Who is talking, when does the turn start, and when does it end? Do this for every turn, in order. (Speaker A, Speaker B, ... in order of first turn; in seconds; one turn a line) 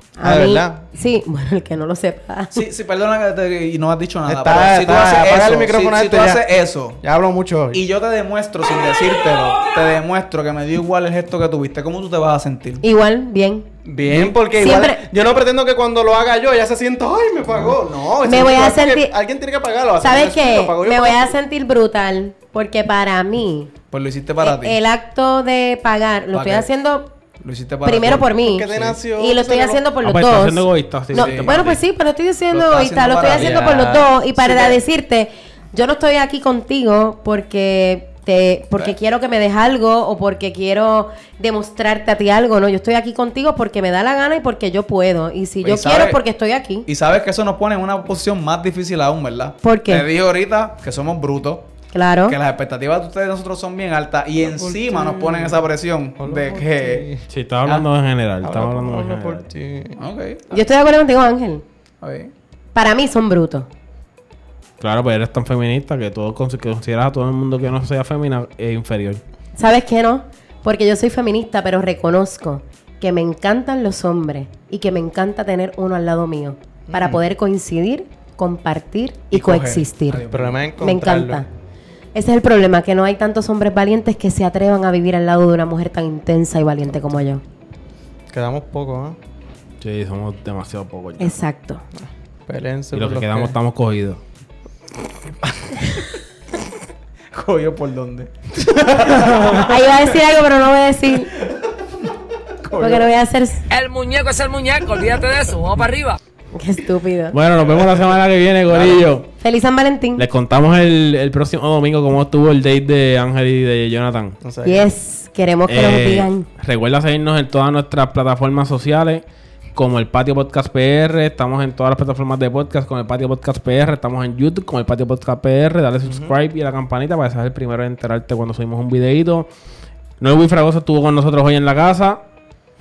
Speaker A: 0.2-2.6
Speaker B: 0.2-0.8
Speaker C: 2.5-7.0
Speaker B: 4.2-6.4
Speaker B: 7.0-7.8
Speaker C: 7.7-12.8
Speaker A: 12.8-15.0
Speaker B: 13.8-21.4
Speaker A: 18.2-19.1
Speaker A: 20.0-23.7
Speaker C: 23.9-24.8
Speaker A: 24.4-27.1
Speaker C: 26.3-26.7
Speaker C: 27.4-29.0
Speaker A: 27.8-46.9
Speaker B: 28.4-29.8
Speaker D: 30.0-31.8
Speaker C: 31.1-31.6
Speaker C: 32.5-33.6
Speaker B: 33.3-34.2
Speaker C: 34.4-34.7
Speaker C: 45.6-46.2
Speaker C: 46.9-51.7
Speaker A: 49.6-50.1
Speaker A: 51.9-52.4
Speaker C: 52.2-57.0
Speaker B: 54.4-57.2
Speaker D: 57.3-59.4
Speaker B: 58.4-60.0
Speaker C: 60.0-60.5
Speaker A: 60.5-61.6
Speaker C: 62.0-62.3
Speaker A: 62.7-63.7
Speaker D: 64.8-69.2
Speaker A: 69.6-80.2
Speaker B: 76.9-77.2
Speaker C: 79.3-80.6
Speaker B: 80.3-81.4
Speaker A: 80.8-81.5
Speaker A: 82.1-87.4
Speaker B: 88.3-89.2
Speaker D: 89.8-91.3
Speaker A: 91.2-91.8
Speaker B: 92.5-93.6
Speaker D: 92.9-94.2
Speaker C: 95.6-96.1
Speaker C: 97.3-98.3
Speaker C: 99.0-99.8
Speaker A: 99.1-101.3
Speaker C: 102.6-103.1
Speaker A: 102.8-103.7
Speaker E: 103.7-106.2
Speaker A: 106.5-107.4
Speaker D: 107.3-109.3
Speaker C: 108.7-109.0
Speaker A: 109.4-110.2
Speaker D: 110.2-114.3
Speaker B: 114.4-114.9
Speaker A: 114.6-116.5
Speaker D: 115.7-119.2
Speaker D: 119.7-129.5
Speaker B: 126.0-126.3
Speaker D: 130.2-132.2